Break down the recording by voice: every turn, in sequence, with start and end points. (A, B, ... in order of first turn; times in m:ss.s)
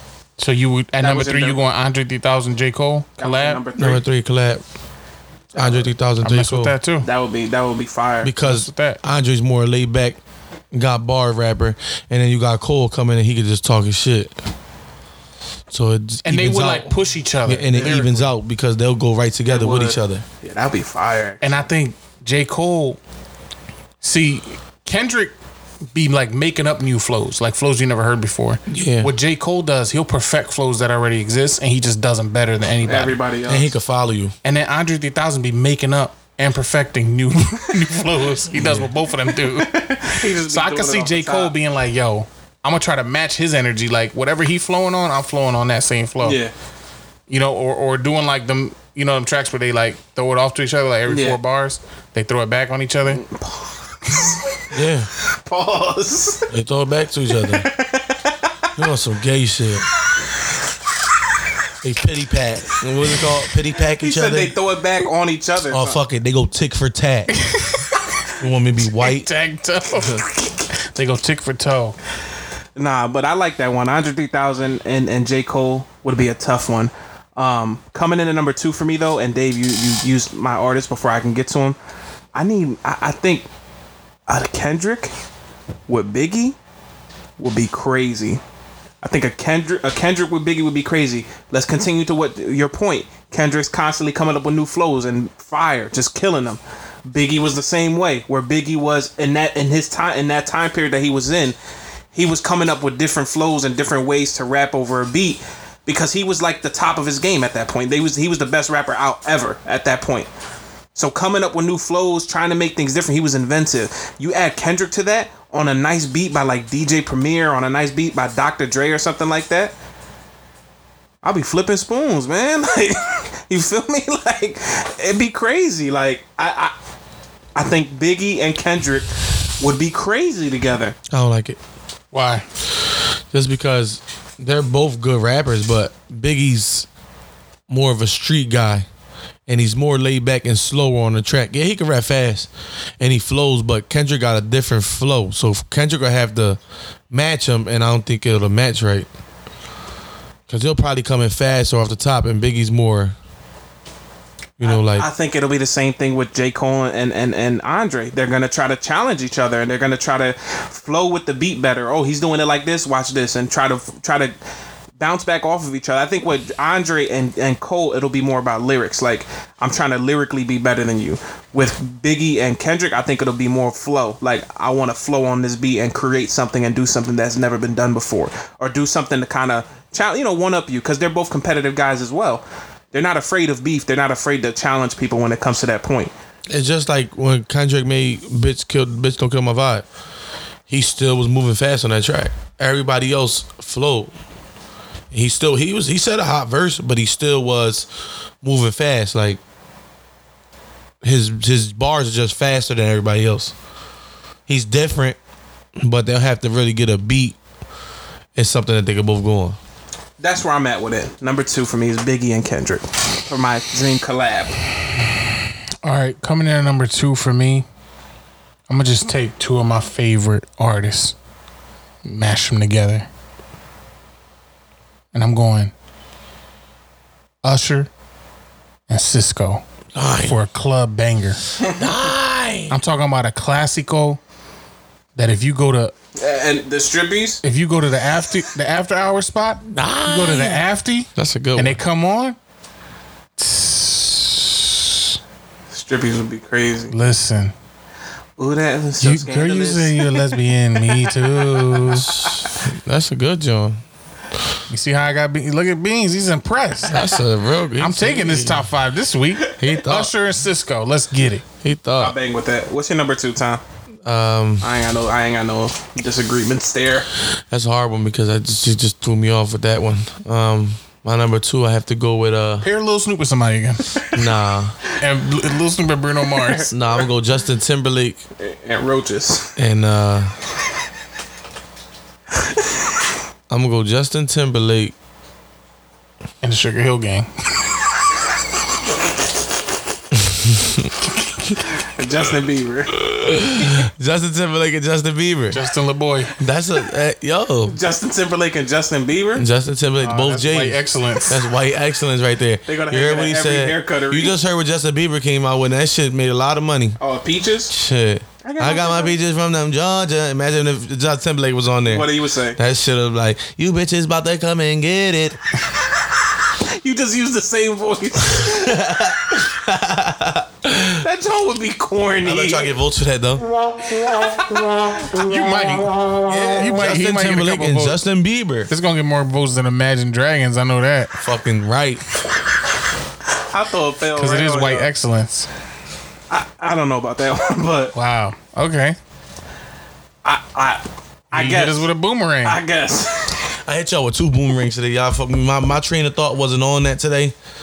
0:00.4-0:03.6 A
0:01.0-0:01.6 B
0:03.2-0:04.0 B
0:03.8-0:04.6 C
0:05.5-0:05.9 B
0:05.6-0:06.7 C
0:06.2-0:07.1 A
0:07.0-0:08.3 B
0:08.2-0:10.2 C
0:08.4-0:09.0 A
0:10.7-0:14.4 C
0:15.7-0:20.2 C
0:16.2-0:18.3 A
0:19.5-0:21.4 B
0:21.4-0:23.0 A
0:24.0-0:25.3 A
0:25.9-0:33.2 A
0:28.7-0:29.1 C
0:32.8-0:33.8 B
0:33.5-0:34.3 C
0:34.4-0:46.4 A
0:38.6-0:38.9 C
0:39.5-0:41.5 B
0:46.2-0:46.5 B
0:47.3-0:53.2 A
0:51.1-0:51.4 B
0:53.1-0:54.5 B
0:54.7-0:55.1 C
0:55.5-0:56.5 B
0:56.5-0:57.7 C
0:57.5-0:58.4 B
0:58.8-0:59.9 C
1:01.8-1:04.5 C
1:03.9-1:06.0 B
1:05.7-1:07.4 C
1:08.4-1:09.3 C
1:09.0-1:10.3 A
1:10.9-1:12.0 A
1:12.8-1:21.8 B
1:22.4-1:23.5 B
1:24.3-1:25.1 B
1:25.9-1:26.6 B
1:27.4-1:28.4 B
1:29.0-1:41.6 B
1:42.1-1:50.3 B
1:51.0-1:59.8 B
2:01.2-2:06.7 B
2:07.6-2:09.1 B
2:09.6-2:11.0 B
2:11.1-2:11.6 C
2:12.1-2:12.4 A
2:13.3-2:16.9 C
2:17.7-2:18.9 C
2:19.5-2:22.5 C
2:23.0-2:26.6 C
2:27.1-2:29.1 C
2:30.5-2:33.2 C
2:34.6-2:35.1 C
2:34.6-2:44.4 B
2:45.0-3:06.1 B
3:06.5-3:09.8 C
3:10.7-3:14.1 C
3:15.1-3:17.9 C
3:18.4-3:19.4 C
3:21.0-3:23.5 C
3:24.5-3:25.2 C
3:25.8-3:27.4 C
3:28.4-3:29.6 C
3:30.2-3:34.6 B
3:35.8-3:37.7 A
3:38.7-3:41.2 A
3:42.0-3:43.1 A
3:45.1-3:45.7 A
3:47.4-3:47.9 A
3:48.9-3:49.6 A
3:50.0-3:50.4 C
3:50.2-3:51.4 A
3:51.8-3:52.8 C
3:52.7-3:54.2 A
3:55.2-3:55.9 A
3:56.2-3:57.4 B
3:57.4-4:02.4 A
3:59.7-4:01.8 C
4:03.4-4:04.9 A
4:05.7-4:06.9 B
4:06.9-4:07.5 A
4:08.4-4:12.0 B
4:09.0-4:12.3 A
4:12.6-4:13.8 C
4:14.7-4:17.0 A
4:16.9-4:18.7 C
4:17.8-4:21.4 A
4:19.6-4:20.1 C
4:21.6-4:22.2 C
4:22.0-4:23.6 B
4:24.0-4:24.6 C
4:24.6-4:27.1 B
4:27.5-4:32.7 C
4:32.6-4:33.9 A
4:34.1-4:34.8 C
4:35.0-4:36.7 A
4:36.4-4:37.1 B
4:36.7-4:38.2 C
4:38.4-4:39.5 B
4:39.6-4:40.3 C
4:43.5-4:45.0 C
4:46.4-4:47.3 A
4:50.3-4:50.9 C
4:52.0-4:52.9 B
4:53.0-4:55.6 C
4:55.5-4:56.3 A
4:56.4-4:57.8 C
4:57.7-4:59.5 B
4:59.4-5:07.0 C
5:00.0-5:01.4 A
5:02.7-5:04.4 B
5:07.0-5:07.7 B
5:07.7-5:15.4 C
5:08.4-5:09.2 B
5:11.9-5:12.6 B
5:16.8-5:18.8 B
5:18.4-5:21.0 C
5:21.0-5:22.7 B
5:22.2-5:23.5 C
5:25.1-5:25.9 A
5:26.2-5:28.7 C
5:26.6-5:28.0 A
5:28.7-5:31.1 A
5:31.2-5:32.0 C
5:33.5-5:34.9 B
5:34.2-5:35.5 A
5:36.3-5:37.9 B
5:38.0-5:39.0 A
5:40.2-5:41.9 B
5:41.3-5:42.6 A
5:42.4-5:43.4 B
5:43.7-5:47.4 C